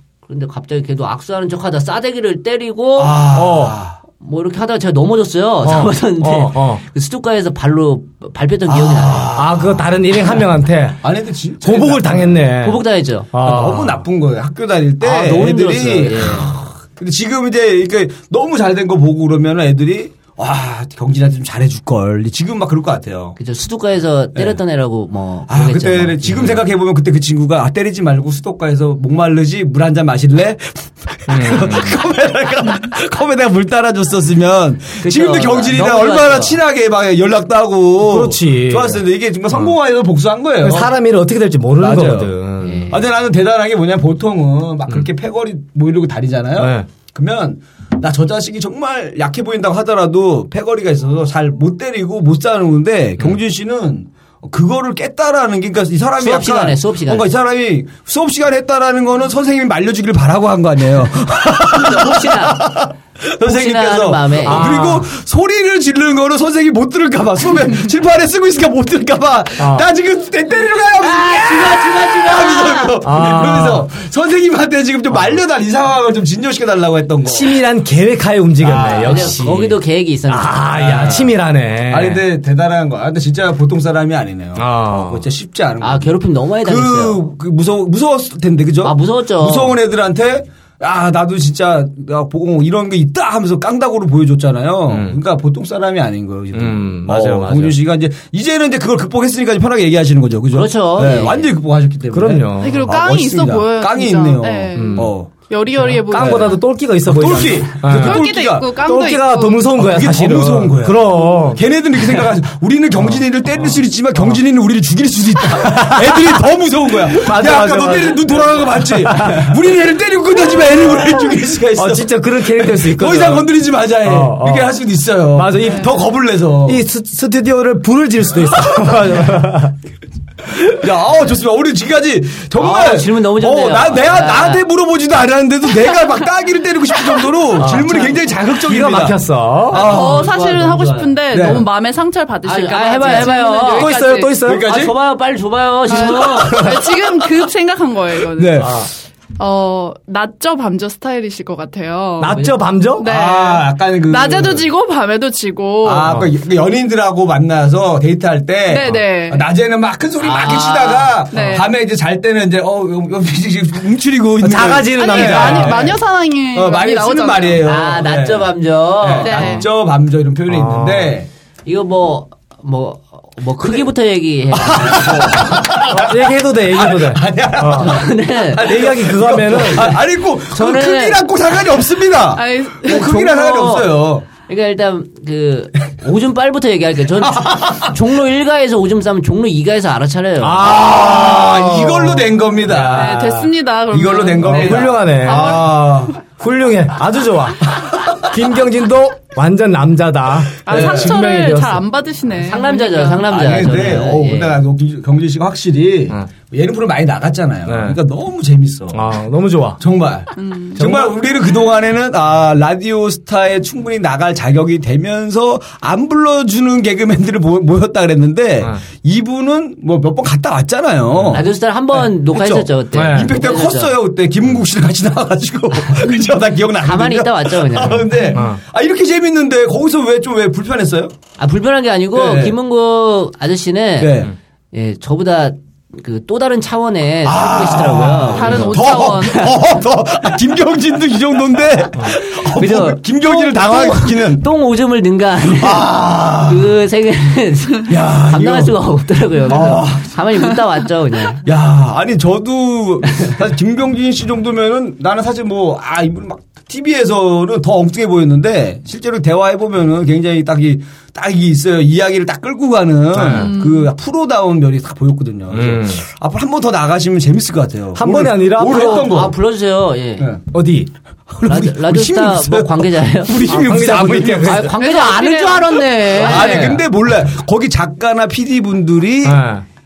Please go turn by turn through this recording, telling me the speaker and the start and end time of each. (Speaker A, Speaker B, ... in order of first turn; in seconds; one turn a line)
Speaker A: 0.2-3.2
Speaker B: 3.0-4.0
Speaker C: 3.3-3.8
Speaker A: 4.2-9.4
Speaker C: 5.6-6.8
Speaker B: 8.7-10.4
Speaker C: 9.3-11.0
Speaker B: 11.0-12.4
Speaker C: 11.6-14.0
Speaker A: 12.6-13.3
Speaker B: 13.4-23.4
Speaker A: 15.0-16.6
Speaker A: 23.4-26.6
Speaker B: 25.5-40.9
Speaker C: 31.3-32.0
Speaker A: 35.0-36.6
Speaker C: 38.0-39.7
Speaker C: 40.6-42.9
Speaker B: 41.8-42.3
Speaker A: 42.6-43.0
Speaker B: 42.9-77.6
Speaker C: 46.6-46.9
Speaker A: 56.2-57.3
Speaker A: 61.6-62.6
Speaker A: 63.4-64.8
Speaker C: 64.4-65.1
Speaker C: 69.6-69.8
Speaker A: 71.0-73.0
Speaker C: 73.0-73.8
Speaker C: 77.2-82.2
Speaker B: 78.6-79.4
Speaker A: 78.7-81.3
Speaker B: 80.7-81.4
Speaker B: 81.9-105.3
Speaker C: 84.5-85.2
Speaker A: 85.8-87.2
Speaker A: 88.8-89.8
Speaker C: 94.9-95.2
Speaker C: 96.5-97.8
Speaker A: 100.5-101.5
Speaker C: 102.1-102.9
Speaker D: 102.6-106.6
Speaker C: 104.7-105.1
Speaker C: 105.7-112.3
Speaker B: 106.1-106.5
Speaker B: 107.0-108.7
Speaker D: 107.8-109.7
Speaker B: 109.8-126.8
Speaker C: 113.0-114.4
Speaker C: 115.6-116.4
Speaker C: 117.0-119.6
Speaker C: 121.7-123.5
Speaker C: 124.0-124.8
Speaker C: 125.3-126.0
Speaker C: 126.6-129.7
Speaker B: 130.7-140.4
Speaker A: 132.6-134.6
Speaker C: 137.5-139.8
Speaker D: 139.7-144.4
Speaker A: 139.8-141.2
Speaker B: 141.3-141.6
Speaker A: 142.4-146.8
Speaker C: 143.1-144.7
Speaker B: 144.4-144.9
Speaker D: 145.9-148.8
Speaker B: 146.4-146.8
Speaker B: 148.3-148.8
Speaker C: 148.6-148.9
Speaker D: 149.4-156.1
Speaker C: 152.2-153.1
Speaker B: 153.0-154.6
Speaker B: 155.8-166.0
Speaker D: 158.7-159.4
Speaker A: 160.2-161.2
Speaker D: 161.3-161.7
Speaker C: 164.4-165.9
Speaker D: 164.9-167.7
Speaker B: 166.5-171.3
Speaker A: 167.6-169.6
Speaker D: 169.2-169.7
Speaker C: 170.5-171.2
Speaker A: 171.7-175.6
Speaker B: 174.5-184.2
Speaker C: 175.9-178.0
Speaker A: 177.7-178.9
Speaker C: 178.6-179.9
Speaker A: 180.5-181.2
Speaker D: 182.3-183.1
Speaker A: 182.9-190.8
Speaker B: 187.2-188.0
Speaker C: 190.4-193.5
Speaker B: 190.6-193.3
Speaker D: 192.9-195.9
Speaker B: 193.9-196.2
Speaker C: 194.4-195.6
Speaker C: 196.4-201.8
Speaker D: 200.7-203.3
Speaker B: 200.7-201.2
Speaker A: 202.4-204.6
Speaker B: 203.2-209.1
Speaker C: 207.6-208.0
Speaker C: 208.9-209.8
Speaker B: 209.8-231.1
Speaker D: 210.3-210.8
Speaker C: 210.8-211.2
Speaker C: 221.1-221.4
Speaker A: 221.3-223.9
Speaker C: 222.9-223.4
Speaker A: 226.8-228.3
Speaker C: 228.3-228.6
Speaker A: 231.4-239.6
Speaker B: 232.1-232.6
Speaker B: 234.0-234.3
Speaker B: 237.2-244.4
Speaker D: 238.3-239.6
Speaker A: 242.1-251.4
Speaker B: 245.6-246.7
Speaker B: 247.9-248.8
Speaker B: 249.5-250.2
Speaker B: 251.4-269.3
Speaker C: 263.1-263.5
Speaker D: 263.2-263.9
Speaker C: 265.5-266.0
Speaker C: 267.9-269.1
Speaker A: 268.6-270.3
Speaker C: 270.5-270.9
Speaker B: 271.3-274.7
Speaker A: 271.4-273.6
Speaker C: 273.4-274.7
Speaker A: 274.4-276.8
Speaker D: 274.7-276.7
Speaker B: 276.1-279.4
Speaker C: 279.2-279.6